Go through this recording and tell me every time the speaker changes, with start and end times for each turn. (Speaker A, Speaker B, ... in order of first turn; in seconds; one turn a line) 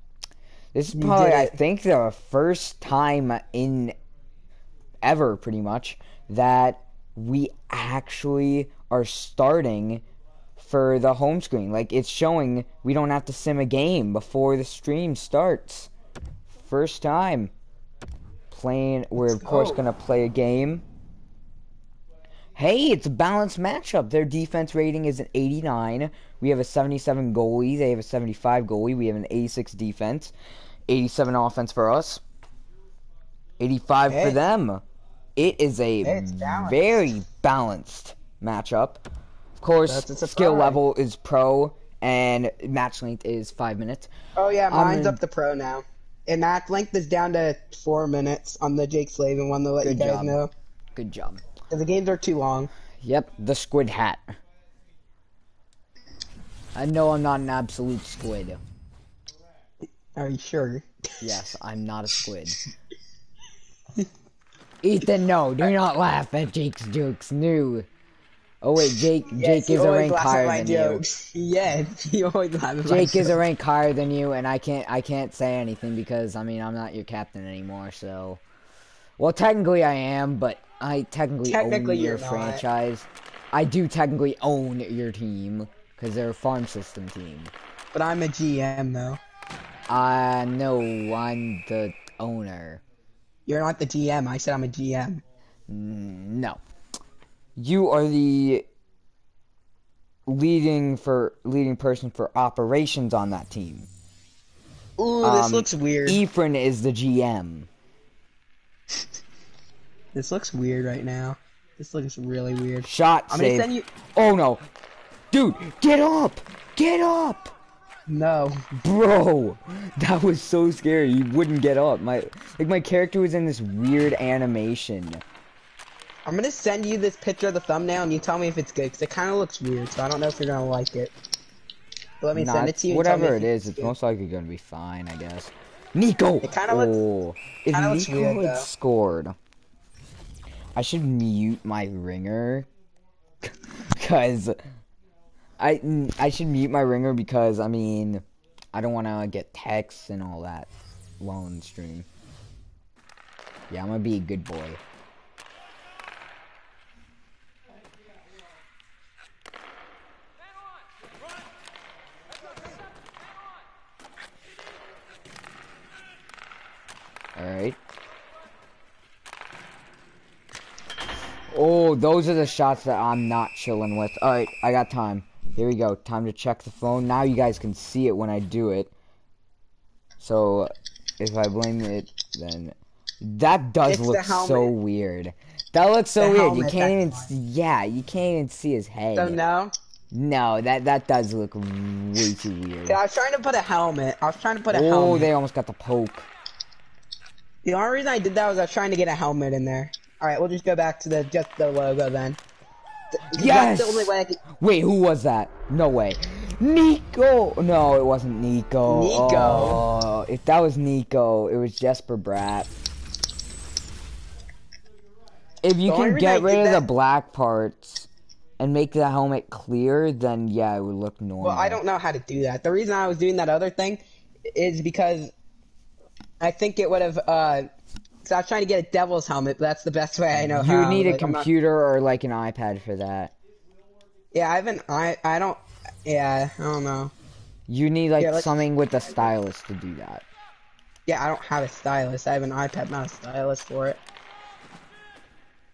Speaker A: 0.7-4.0
Speaker B: 0.9-1.6
Speaker A: 5.0-10.0
Speaker A: 10.6-15.9
Speaker A: 16.5-17.5
Speaker A: 18.5-20.9
Speaker B: 19.2-19.8
Speaker A: 22.6-30.3
Speaker A: 30.9-32.2
Speaker A: 33.6-34.8
Speaker B: 34.1-34.4
Speaker A: 35.4-39.0
Speaker B: 36.0-37.1
Speaker A: 39.6-44.1
Speaker B: 39.9-40.8
Speaker B: 44.4-50.5
Speaker A: 44.7-45.2
Speaker A: 49.8-50.4
Speaker A: 51.0-51.4
Speaker B: 51.7-52.7
Speaker A: 53.0-54.4
Speaker A: 56.8-58.6
Speaker B: 60.1-60.9
Speaker A: 61.2-62.6
Speaker A: 64.8-67.9
Speaker A: 68.6-71.0
Speaker B: 69.3-73.4
Speaker A: 72.9-78.4
Speaker A: 79.2-87.5
Speaker B: 81.4-82.7
Speaker B: 87.9-89.2
Speaker A: 89.9-92.8
Speaker B: 93.5-95.2
Speaker A: 95.7-96.6
Speaker A: 97.6-98.7
Speaker A: 100.3-103.9
Speaker B: 105.0-106.2
Speaker A: 105.2-107.7
Speaker B: 110.1-113.9
Speaker A: 112.8-114.7
Speaker A: 115.3-117.5
Speaker B: 118.1-118.6
Speaker A: 118.8-125.2
Speaker B: 126.3-131.1
Speaker B: 132.2-133.9
Speaker A: 132.3-139.4
Speaker B: 136.4-137.0
Speaker B: 137.7-138.7
Speaker A: 140.8-142.7
Speaker A: 143.4-144.6
Speaker A: 145.6-150.7
Speaker A: 151.2-152.1
Speaker A: 153.7-154.8
Speaker A: 167.4-167.8
Speaker A: 171.5-178.9
Speaker A: 180.2-189.4
Speaker B: 183.9-184.7
Speaker B: 186.2-187.3
Speaker B: 189.2-189.7
Speaker A: 190.1-193.0
Speaker B: 192.9-195.3
Speaker A: 194.7-196.3
Speaker B: 197.6-202.4
Speaker B: 203.1-204.4
Speaker A: 203.3-212.7
Speaker B: 208.8-209.8
Speaker A: 215.6-218.1
Speaker B: 215.9-216.8
Speaker A: 218.6-221.8
Speaker B: 221.4-225.3
Speaker B: 226.4-227.7
Speaker B: 228.2-231.5
Speaker A: 230.5-233.3
Speaker B: 234.3-237.1
Speaker A: 237.7-240.2
Speaker B: 238.2-238.6
Speaker B: 241.1-244.0